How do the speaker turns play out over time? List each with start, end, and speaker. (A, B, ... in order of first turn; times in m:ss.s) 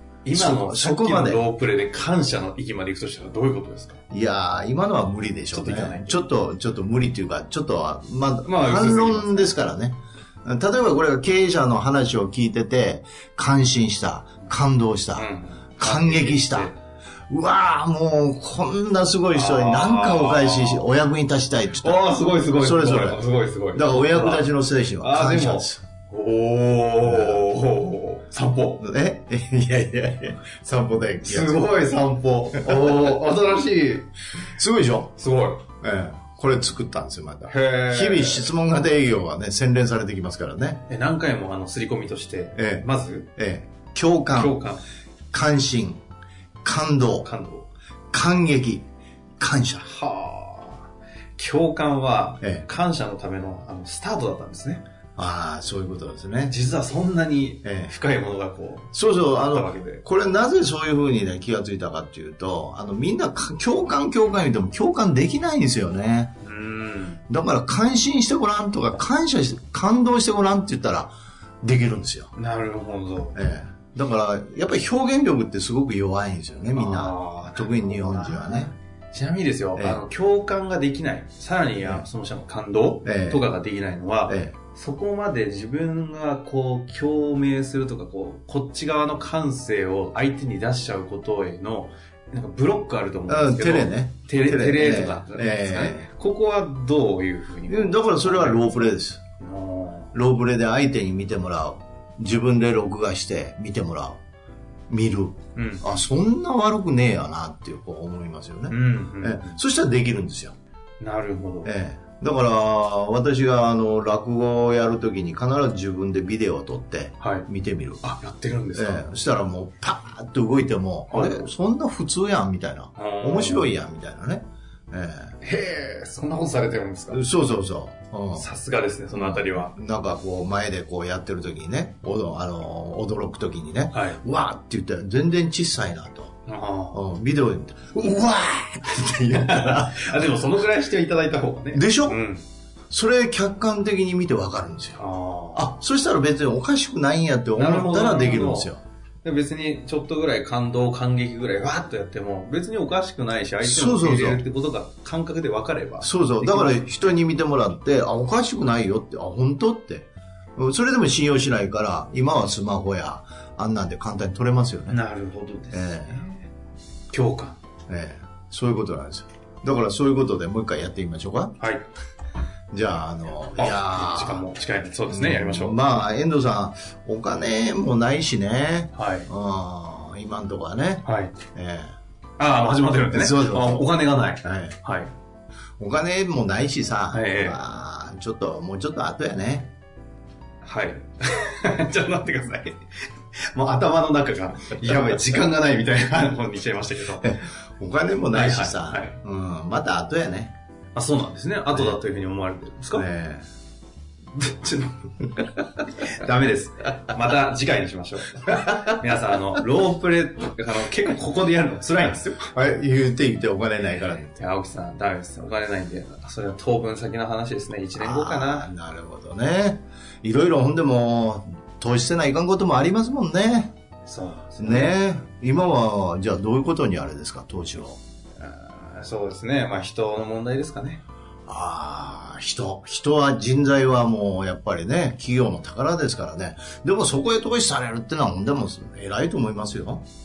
0:00.2-0:04.0 A
0:00.3-0:01.4 B
0:04.1-0:16.7 B
0:05.5-0:06.2 A
0:08.4-0:09.6 A
0:15.1-0:16.7 A
0:17.3-0:25.8 B
0:19.3-0:20.9 A
0:21.8-0:28.8 A
0:27.0-0:27.4 B
0:28.8-0:31.6 B
0:31.2-0:34.1 A
0:32.6-0:32.9 B
0:34.6-0:35.1 B
0:35.2-0:35.6 A
0:35.8-0:40.8 B
0:37.4-0:38.5 A
0:40.9-0:43.3 A
0:42.6-0:44.6 B
0:44.3-0:44.8 A
0:45.3-0:46.0 B
0:46.6-0:47.3 B
0:47.2-0:47.7 A
0:48.1-0:48.9 B
0:49.4-0:49.9 B
0:49.8-0:50.8 A
0:51.4-0:54.8 A
0:55.2-0:56.6 B
0:56.4-1:00.0 A
0:57.6-0:57.9 B
0:58.9-1:06.3 B
1:06.4-1:07.2 A
1:07.3-1:12.3 B
1:12.3-1:13.4 A
1:13.3-1:18.7 B
1:16.7-1:40.1 A
1:21.8-1:22.1 B
1:23.0-1:23.4 B
1:24.3-1:24.5 B
1:33.3-1:36.1 B
1:37.7-1:39.2 B
1:40.1-1:44.2 B
1:44.9-1:50.5 B
1:45.5-1:45.8 A
1:48.7-1:49.6 A
1:51.0-1:51.7 A
1:51.6-1:58.0 B
1:57.2-1:57.5 A
1:58.0-1:59.1 A
1:58.7-2:05.4 B
2:01.1-2:01.4 A
2:03.0-2:03.7 A
2:05.4-2:07.2 A
2:07.1-2:08.5 B
2:08.3-2:09.7 A
2:09.1-2:16.4 B
2:13.9-2:14.2 A
2:16.5-2:17.0 A
2:16.9-2:20.4 B
2:19.3-2:22.4 A
2:21.7-2:22.2 B
2:22.9-2:25.0 B
2:24.9-2:25.7 A
2:25.5-2:28.8 B
2:27.5-2:28.7 A
2:29.2-2:37.2 A
2:33.6-2:34.4 B
2:36.0-2:45.0 B
2:44.9-2:46.5 A
2:45.7-2:46.2 B
2:47.1-2:47.6 A
2:47.9-2:51.5 B
2:51.6-2:51.9 A
2:52.7-2:54.5 B
2:53.6-2:56.0 A
2:55.1-3:01.9 B
2:58.9-2:59.3 A
3:01.0-3:01.3 A
3:02.4-3:05.1 A
3:03.1-3:04.8 B
3:05.8-3:09.7 B
3:07.1-3:07.6 A
3:10.6-3:12.8 A
3:13.5-3:17.4 A
3:17.2-3:20.5 B
3:18.3-3:19.2 A
3:20.9-3:23.1 A
3:21.7-3:22.0 B
3:22.9-3:23.5 B
3:24.3-3:32.5 A
3:32.5-3:34.4 B
3:34.3-3:38.7 A
3:38.0-3:43.7 B
3:44.0-3:45.0 A
3:44.6-3:48.0 B
3:48.4-3:51.0 A
3:51.5-4:00.0 B